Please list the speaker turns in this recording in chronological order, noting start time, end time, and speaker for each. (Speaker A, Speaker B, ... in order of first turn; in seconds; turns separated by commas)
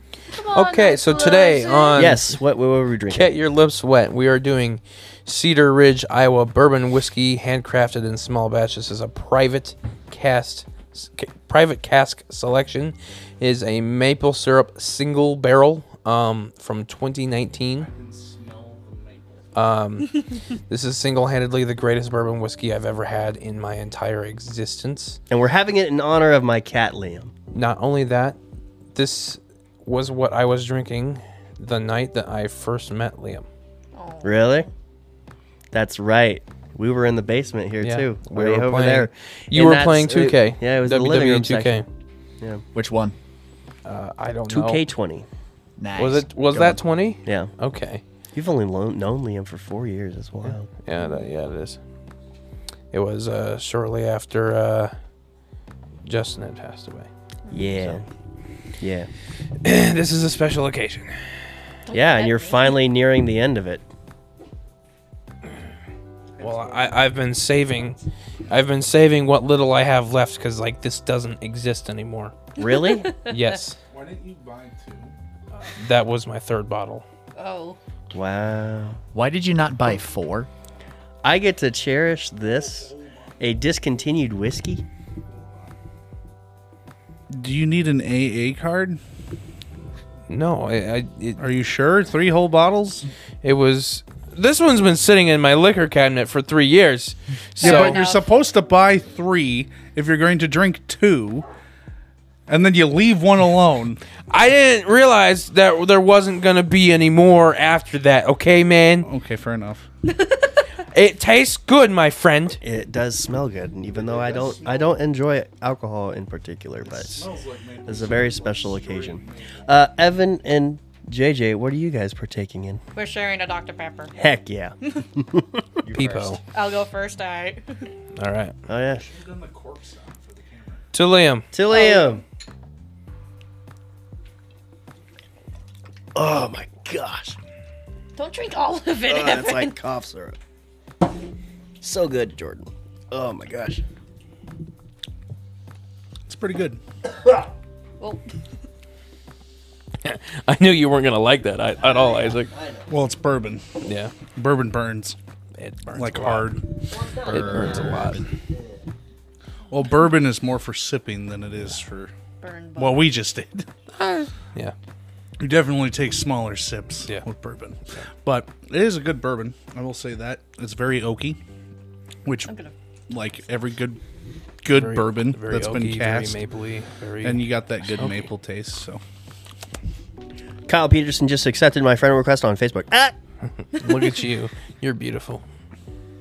Speaker A: 0.3-2.2, Speaker B: 0.5-2.4, Speaker C: 1.9-3.4, Speaker B: 3.1-17.9, Speaker D: 17.8-19.5, Speaker B: 19.5-25.2, Speaker C: 25.3-27.3, Speaker B: 27.5-28.4, Speaker B: 28.9-33.4, Speaker A: 34.0-34.7, Speaker C: 34.2-34.7, Speaker C: 35.7-41.8, Speaker B: 37.8-41.9, Speaker E: 42.7-43.1, Speaker B: 43.8-44.8, Speaker C: 44.5-45.3, Speaker E: 45.8-46.3, Speaker B: 46.0-48.0, Speaker C: 46.5-47.5, Speaker C: 48.3-50.7, Speaker B: 50.4-51.8, Speaker A: 51.0-51.2, Speaker B: 52.9-54.9, Speaker B: 56.0-57.1, Speaker A: 57.5-57.8, Speaker C: 57.5-58.1, Speaker C: 58.8-59.1, Speaker B: 59.6-61.3, Speaker A: 61.9-62.8, Speaker C: 61.9-63.8, Speaker B: 66.4-68.0, Speaker B: 68.5-72.4, Speaker C: 72.6-73.1, Speaker A: 72.6-73.6, Speaker B: 73.2-73.8, Speaker D: 73.9-75.1, Speaker B: 75.8-77.0, Speaker A: 77.3-77.8, Speaker C: 78.1-79.0, Speaker E: 79.1-80.5, Speaker C: 81.2-84.8, Speaker D: 82.4-83.6, Speaker D: 85.3-85.7, Speaker D: 87.3-89.0, Speaker B: 90.3-91.4, Speaker D: 91.4-93.1, Speaker B: 93.4-98.0, Speaker A: 97.6-98.2, Speaker D: 97.6-101.5, Speaker D: 102.5-104.0, Speaker B: 104.3-109.1, Speaker D: 109.0-109.8, Speaker B: 110.9-112.6, Speaker C: 112.6-117.2, Speaker D: 113.9-115.0, Speaker D: 117.0-119.7, Speaker C: 117.8-122.8, Speaker A: 122.9-124.1, Speaker C: 124.1-125.9, Speaker E: 125.9-126.3, Speaker B: 125.9-126.4, Speaker A: 126.5-127.9, Speaker B: 128.2-128.5, Speaker C: 128.7-129.0, Speaker D: 128.8-130.8, Speaker B: 130.9-131.5, Speaker C: 131.5-132.2, Speaker A: 131.7-132.2, Speaker C: 136.1-137.3, Speaker A: 138.2-139.8, Speaker C: 139.0-140.3, Speaker C: 141.8-143.8, Speaker D: 146.3-146.8, Speaker A: 148.0-148.2, Speaker B: 150.0-152.5, Speaker C: 151.8-152.9, Speaker D: 152.9-153.6, Speaker B: 153.8-154.1, Speaker D: 154.3-155.2, Speaker B: 155.6-156.6, Speaker D: 155.9-156.6, Speaker C: 156.9-158.8, Speaker B: 157.3-158.2, Speaker D: 159.7-162.1, Speaker A: 162.4-163.1, Speaker D: 162.8-163.7, Speaker B: 164.0-164.7, Speaker D: 165.4-171.4, Speaker D: 172.2-172.5, Speaker A: 172.4-172.7, Speaker D: 173.1-174.0, Speaker D: 174.6-176.4, Speaker B: 174.7-178.3, Speaker D: 177.2-179.0, Speaker C: 180.7-183.1, Speaker B: 183.7-185.4